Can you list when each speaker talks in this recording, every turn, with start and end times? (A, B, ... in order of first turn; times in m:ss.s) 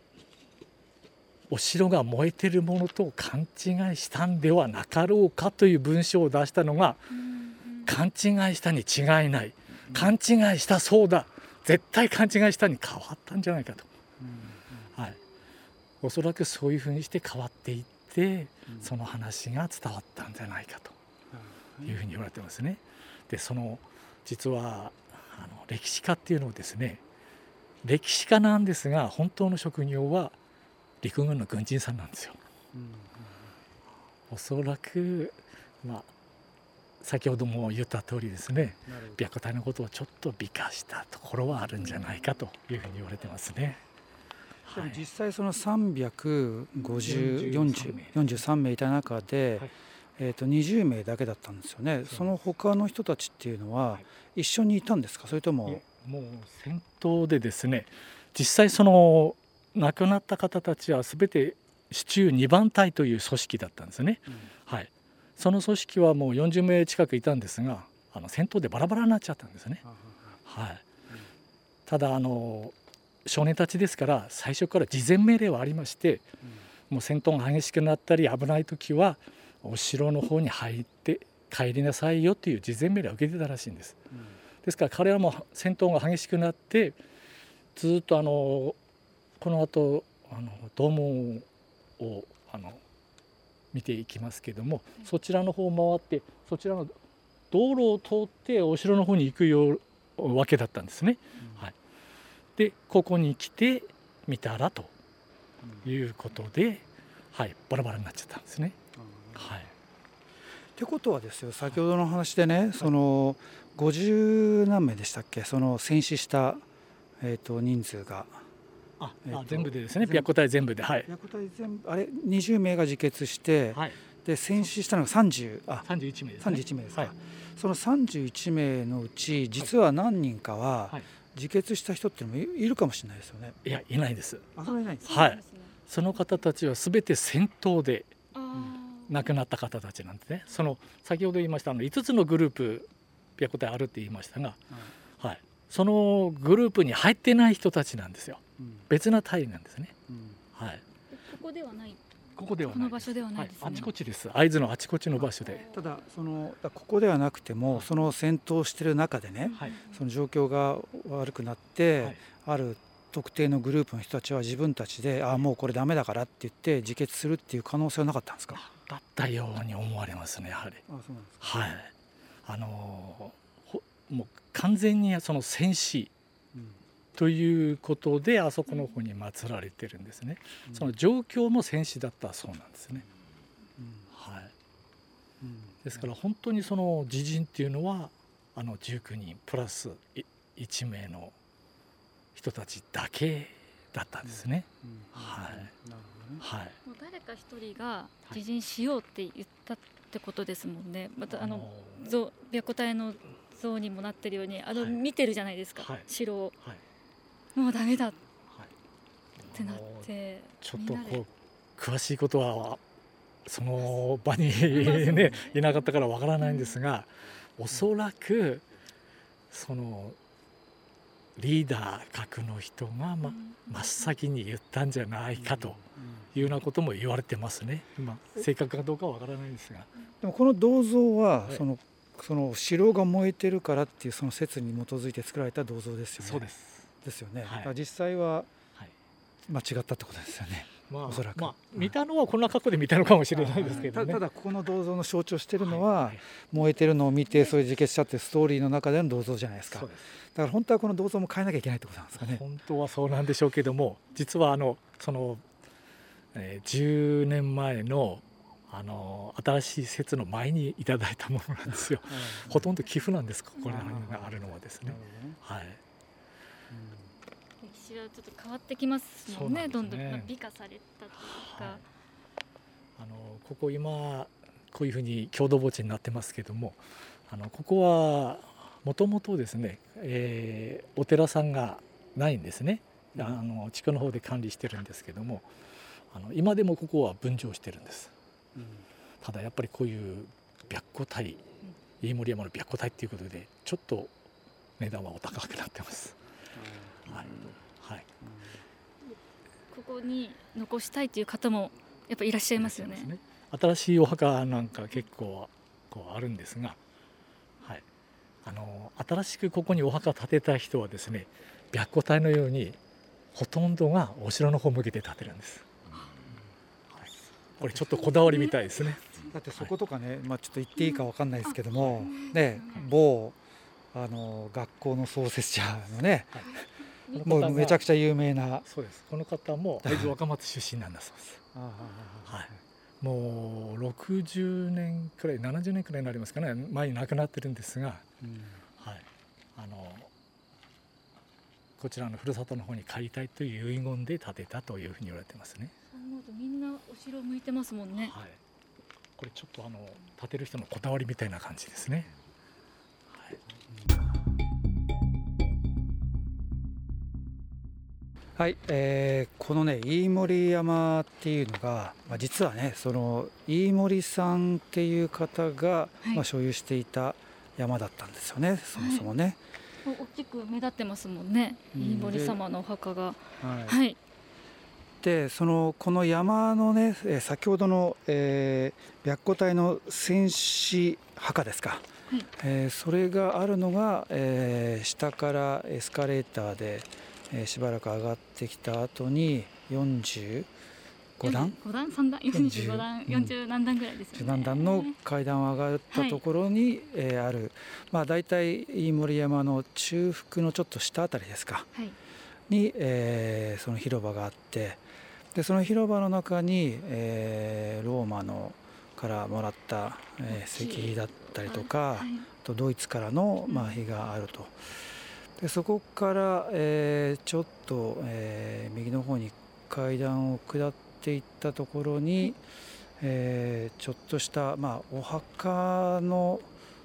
0:01.5-0:07.1 A
0:07.2-0:07.9 B
0:07.8-0:13.9 A
0:09.9-0:10.1 C
0:14.2-0:14.9 C
0:16.0-0:21.0 A
0:21.3-0:22.0 C
0:21.8-0:27.0 A
0:27.8-0:30.4 A
0:31.0-0:32.4 A
0:32.7-0:33.6 C
0:34.3-0:36.1 A
0:37.0-0:43.8 A
0:38.9-0:39.2 C
0:44.6-0:45.0 A
0:44.7-0:55.8 C
0:47.0-0:48.4 A
0:52.1-0:52.4 A
0:55.7-1:09.8 A
1:09.8-1:10.4 C
1:10.5-1:10.8 A
1:11.9-1:12.7 A
1:13.3-1:16.3 A
1:16.9-1:24.0 A
1:24.1-1:24.4 C
1:24.6-1:27.0 A
1:27.8-1:28.8 A
1:29.4-1:31.4 A
1:32.0-1:32.8 A
1:33.7-1:36.9 A
1:37.5-1:41.7 A
1:41.4-1:41.7 C
1:42.6-1:44.9 A
1:45.6-1:45.9 C
1:45.8-1:48.8 A
1:49.0-1:49.6 C
1:49.4-1:49.7 A
1:50.8-1:56.6 C
1:57.2-1:58.4 C
1:59.0-2:01.1 A
1:59.3-2:00.3 C
2:01.0-2:05.9 C
2:03.7-2:04.0 A
2:05.8-2:07.1 A
2:06.4-2:13.6 C
2:13.6-2:14.5 A
2:14.6-2:15.1 C
2:14.6-2:15.8 B
2:15.1-2:18.1 A
2:18.3-2:19.3 B
2:19.1-2:24.6 A
2:25.2-2:29.9 A
2:28.6-2:28.9 C
2:30.1-2:30.4 C
2:30.6-2:30.8 A
2:31.1-2:32.0 B
2:32.4-2:35.7 A
2:32.6-2:33.9 B
2:35.2-2:48.6 C
2:39.4-2:40.0 B
2:48.5-2:50.8 A
2:50.9-2:51.5 C
2:51.4-2:51.9 A
2:52.5-2:56.1 A
2:56.5-2:56.8 C
2:57.2-3:03.1 A
3:00.7-3:00.9 C
3:03.8-3:04.1 C
3:04.1-3:04.5 A
3:05.4-3:06.1 C
3:05.8-3:11.3 A
3:12.4-3:15.7 A
3:14.2-3:16.4 C
3:16.4-3:16.8 A
3:16.8-3:26.6 B
3:21.3-3:22.1 A
3:25.8-3:26.1 A
3:27.6-3:28.2 B
3:29.4-3:30.1 A
3:29.5-3:31.2 B
3:30.6-3:32.8 A
3:33.5-3:38.6 A
3:34.7-3:35.7 B
3:36.4-3:36.8 B
3:39.5-3:40.2 A
3:41.4-3:45.8 A
3:43.2-3:44.0 B
3:45.4-3:46.4 C
3:46.3-3:49.9 A
3:50.2-3:56.5 C
3:56.2-3:56.9 A
3:57.0-3:58.5 C
3:57.5-3:57.7 A
3:59.5-4:01.9 C
4:00.9-4:04.2 A
4:03.3-4:12.4 C
4:05.6-4:06.2 A
4:09.7-4:10.0 A
4:12.2-4:15.4 A
4:16.3-4:25.8 A
4:22.1-4:22.7 C
4:23.7-4:25.4 C
4:26.7-4:27.1 C
4:27.6-4:31.8 B
4:29.3-4:30.3 A
4:31.2-4:31.8 A
4:33.0-4:45.5 A
4:46.1-4:48.1 A
4:48.6-4:48.9 C
4:49.2-4:51.4 A
4:52.0-4:54.1 A
4:54.8-4:56.2 A
4:56.6-4:57.2 C
4:57.1-4:58.1 A
4:58.2-4:58.6 C
4:59.7-5:03.1 B
5:02.6-5:06.8 A
5:08.4-5:12.8 A
5:13.3-5:15.7 A
5:17.0-5:19.0 A
5:18.0-5:19.3 B
5:19.3-5:23.4 C
5:20.8-5:22.9 B
5:23.9-5:26.5 C
5:27.1-5:27.8 A
5:27.2-5:28.7 C
5:28.6-5:31.4 A
5:29.8-5:30.1 C
5:31.5-5:32.6 C
5:33.0-5:38.0 A
5:38.2-5:38.6 C
5:38.8-5:39.0 A
5:39.6-5:40.1 A
5:41.8-5:45.7 A
5:45.9-5:48.2 B
5:48.0-5:48.4 A
5:49.2-5:52.1 A
5:53.1-5:53.4 A
5:58.4-6:09.4 C
6:08.8-6:09.1 B
6:09.8-6:14.0 B
6:11.7-6:12.4 C
6:13.4-6:13.8 C
6:15.0-6:30.5 C
6:31.2-6:31.6 C
6:31.2-6:35.0 B
6:32.3-6:33.4 C
6:34.1-6:41.7 C
6:35.9-6:36.2 B
6:42.5-6:44.8 C
6:45.3-6:54.6 C
6:50.3-6:52.3 B
6:53.5-6:53.8 B
6:55.4-7:02.4 C
7:03.0-7:06.5 C